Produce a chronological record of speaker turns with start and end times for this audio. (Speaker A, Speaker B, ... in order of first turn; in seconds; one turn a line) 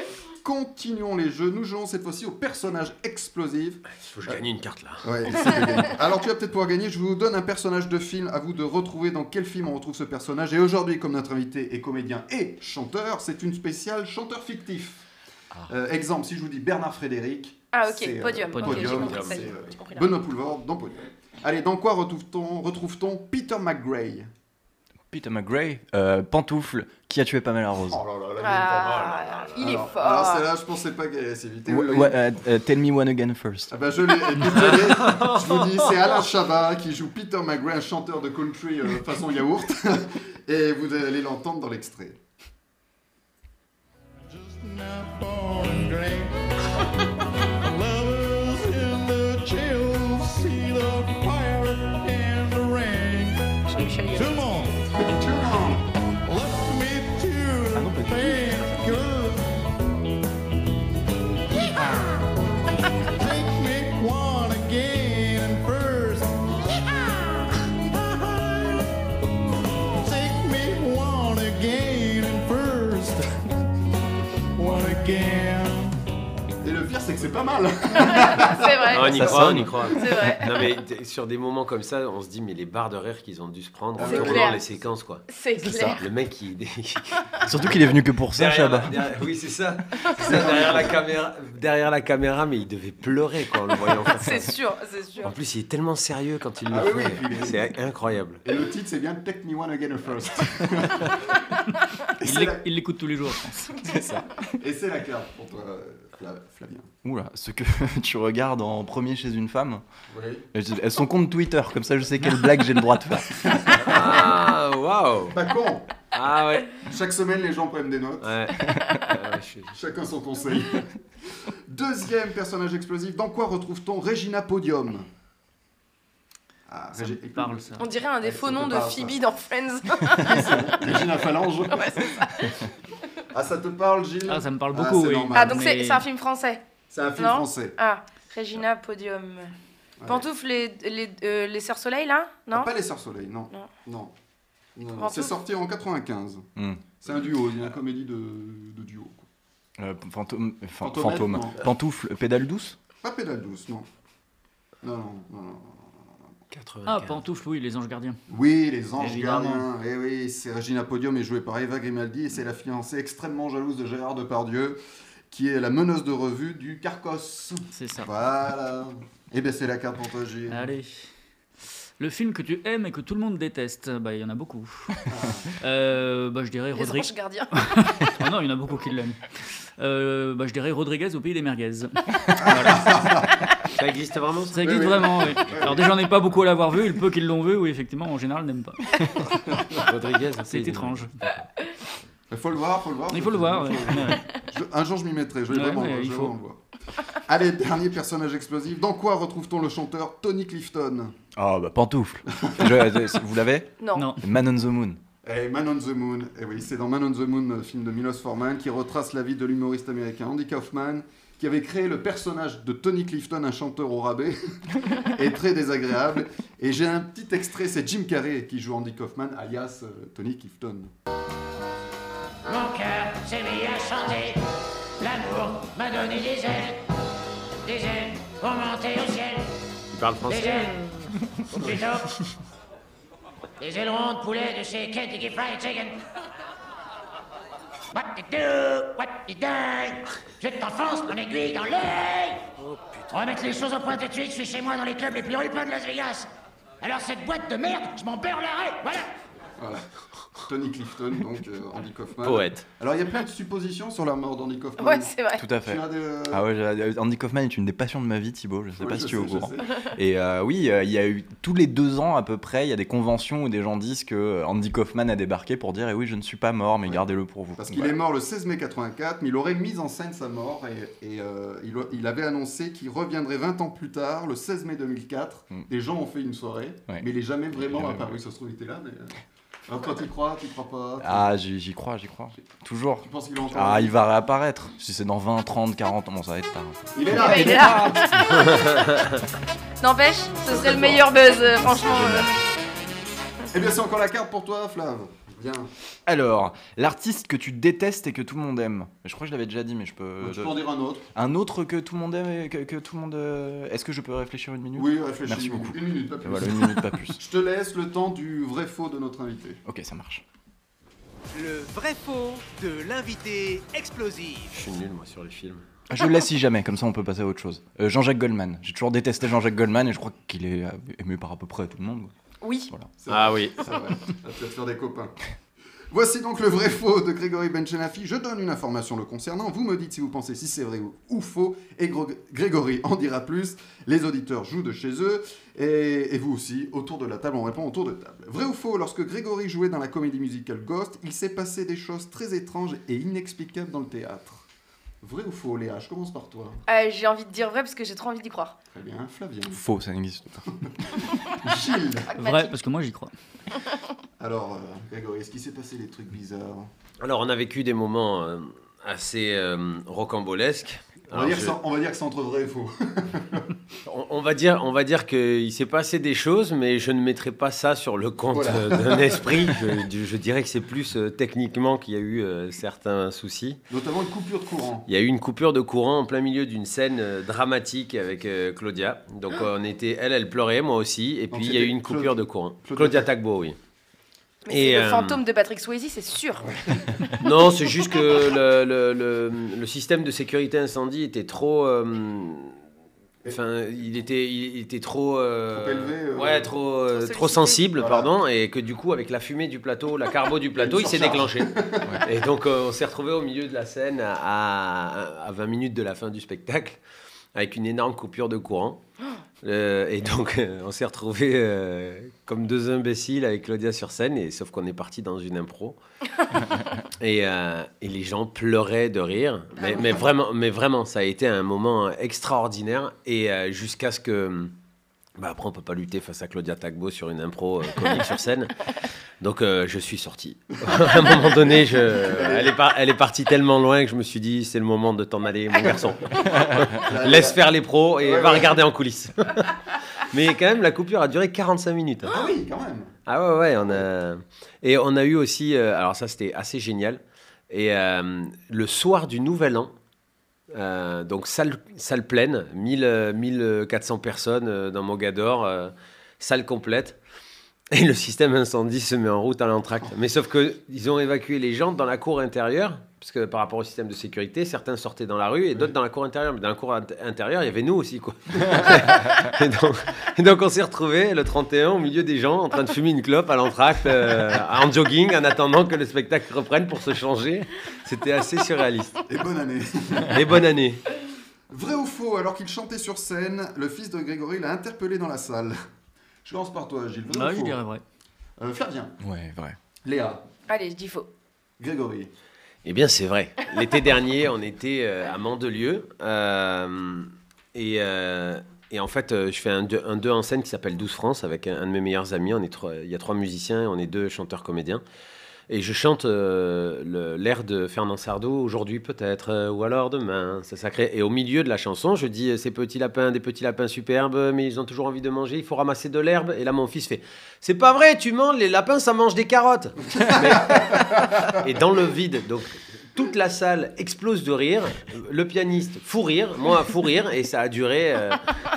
Speaker A: 0.4-4.4
Speaker B: 4.0-5.3
Speaker A: 5.0-15.0
Speaker A: 15.7-24.3
Speaker C: 17.7-20.1
Speaker D: 18.5-19.2
Speaker B: 18.9-19.4
Speaker E: 25.1-28.0
Speaker A: 27.9-32.2
Speaker C: 28.4-30.5
Speaker B: 28.7-29.6
Speaker E: 31.7-33.7
Speaker A: 33.7-42.2
Speaker B: 34.5-36.1
Speaker F: 44.3-46.9
Speaker F: 47.6-53.4
Speaker C: 53.7-54.5
Speaker F: 54.1-54.9
Speaker A: 55.0-55.9
Speaker F: 56.2-59.5
Speaker E: 57.7-59.0
Speaker F: 61.5-62.3
Speaker F: 62.9-67.0
Speaker F: 67.9-68.9
Speaker F: 70.0-73.2
Speaker F: 74.5-75.9
Speaker A: 76.6-79.6
Speaker C: 78.0-79.3
Speaker B: 78.9-85.2
Speaker E: 79.1-80.3
Speaker C: 79.9-80.7
Speaker A: 84.0-84.6
Speaker C: 84.0-84.6
Speaker C: 85.3-86.0
Speaker E: 85.6-86.0
Speaker B: 86.0-87.8
Speaker E: 87.5-89.0
Speaker B: 88.3-94.5
Speaker A: 90.2-91.0
Speaker C: 94.1-95.3
Speaker B: 95.2-98.4
Speaker A: 96.7-97.7
Speaker A: 98.4-101.5
Speaker A: 102.2-102.6
Speaker D: 102.2-103.8
Speaker E: 103.8-104.3
Speaker A: 104.6-106.9
Speaker E: 107.0-109.8
Speaker A: 110.1-110.4
Speaker E: 110.5-113.5
Speaker A: 113.4-114.2
Speaker B: 113.8-115.4
Speaker A: 115.3-115.9
Speaker B: 116.1-116.7
Speaker A: 116.8-118.3
Speaker B: 118.2-119.7
Speaker A: 119.7-120.9
Speaker A: 121.7-125.1
Speaker A: 126.7-129.2
Speaker D: 126.9-127.8
Speaker C: 127.8-130.8
Speaker A: 130.1-132.1
Speaker C: 131.7-132.6
Speaker A: 133.3-135.7
Speaker D: 134.3-136.0
Speaker C: 135.3-136.6
Speaker A: 136.9-137.8
Speaker C: 137.2-139.5
Speaker C: 140.1-142.7
Speaker A: 142.5-144.1
Speaker A: 144.8-146.4
Speaker C: 145.0-145.3
Speaker E: 146.6-146.8
Speaker A: 147.0-149.2
Speaker E: 149.8-152.8
Speaker A: 150.8-151.6
Speaker A: 153.0-153.9
Speaker A: 154.8-155.9
Speaker B: 156.5-157.2
Speaker D: 156.9-158.2
Speaker A: 158.3-170.7
Speaker D: 159.0-159.7
Speaker D: 167.7-168.1
Speaker D: 170.5-171.1
Speaker D: 172.0-179.2
Speaker A: 175.1-175.5
Speaker C: 176.7-177.5
Speaker D: 179.8-183.2
Speaker A: 182.4-183.4
Speaker B: 183.8-184.6
Speaker D: 184.5-189.3
Speaker A: 184.6-185.9
Speaker B: 189.8-191.1
Speaker D: 190.5-191.1
Speaker A: 192.3-196.6
Speaker D: 193.1-194.3
Speaker D: 195.5-196.3
Speaker A: 197.2-201.1
Speaker E: 201.3-205.0
Speaker A: 202.4-203.1
Speaker C: 203.8-204.1
Speaker D: 203.9-204.2
Speaker A: 205.2-220.9
Speaker G: 222.4-224.4
Speaker G: 225.0-226.8
Speaker G: 227.6-229.4
Speaker B: 229.9-230.9
Speaker G: 230.3-230.8
Speaker G: 231.5-232.1
Speaker G: 233.6-236.0
Speaker G: 237.9-242.4
Speaker B: 242.7-243.0
Speaker G: 243.1-246.3
Speaker G: 246.8-249.1
Speaker A: 249.6-249.9
Speaker A: 250.4-256.4
Speaker B: 252.2-252.6
Speaker C: 254.8-255.4
Speaker E: 255.4-268.0
Speaker A: 258.8-259.8
Speaker A: 267.6-279.1
Speaker E: 276.9-278.1
Speaker A: 279.7-281.3
Speaker E: 281.0-288.5
Speaker A: 283.0-284.0
Speaker A: 286.9-287.9
Speaker C: 287.1-288.1
Speaker B: 288.4-289.1
Speaker C: 289.8-292.3
Speaker A: 290.4-291.1
Speaker E: 291.8-292.3
Speaker A: 293.5-295.7
Speaker E: 296.1-300.6
Speaker A: 300.2-301.1
Speaker E: 301.1-307.2
Speaker A: 304.8-309.6
Speaker E: 309.6-310.2
Speaker H: 311.3-314.7
Speaker B: 314.5-315.6
Speaker E: 315.9-322.1
Speaker C: 322.4-322.7
Speaker A: 323.0-325.1
Speaker B: 323.1-323.6
Speaker A: 325.9-344.4
Speaker A: 345.0-346.6
Speaker C: 346.7-348.6
Speaker A: 348.7-349.6
Speaker E: 349.5-350.4
Speaker A: 350.6-352.1
Speaker C: 352.1-352.6
Speaker D: 352.1-353.1
Speaker A: 354.2-356.7
Speaker B: 357.0-361.6
Speaker A: 361.1-363.5
Speaker B: 363.9-373.6
Speaker A: 368.3-369.4
Speaker A: 373.7-374.9
Speaker B: 374.9-383.6
Speaker A: 381.3-383.1
Speaker C: 384.4-386.5
Speaker B: 384.5-385.2
Speaker A: 386.5-387.1
Speaker B: 387.2-392.6
Speaker B: 393.3-401.5
Speaker A: 395.5-396.5
Speaker C: 396.9-397.6
Speaker A: 397.8-398.1
Speaker A: 400.6-402.1
Speaker B: 402.0-406.8
Speaker B: 407.4-408.8
Speaker B: 409.4-415.8
Speaker B: 417.0-424.5
Speaker C: 419.6-420.1
Speaker B: 425.2-428.5
Speaker B: 429.2-442.1
Speaker A: 430.6-432.6
Speaker A: 435.6-437.4
Speaker A: 438.0-438.6
Speaker A: 442.1-442.9
Speaker B: 443.1-449.7
Speaker B: 450.5-457.0
Speaker B: 457.7-479.0
Speaker A: 479.1-480.2
Speaker B: 480.1-480.8
Speaker A: 481.5-485.6
Speaker A: 486.2-487.6
Speaker D: 487.1-487.8
Speaker A: 488.4-488.9
Speaker E: 489.0-489.6
Speaker A: 489.8-490.2
Speaker C: 490.5-491.1
Speaker A: 491.6-492.1
Speaker B: 492.6-504.8
Speaker B: 505.5-528.3
Speaker A: 519.9-521.4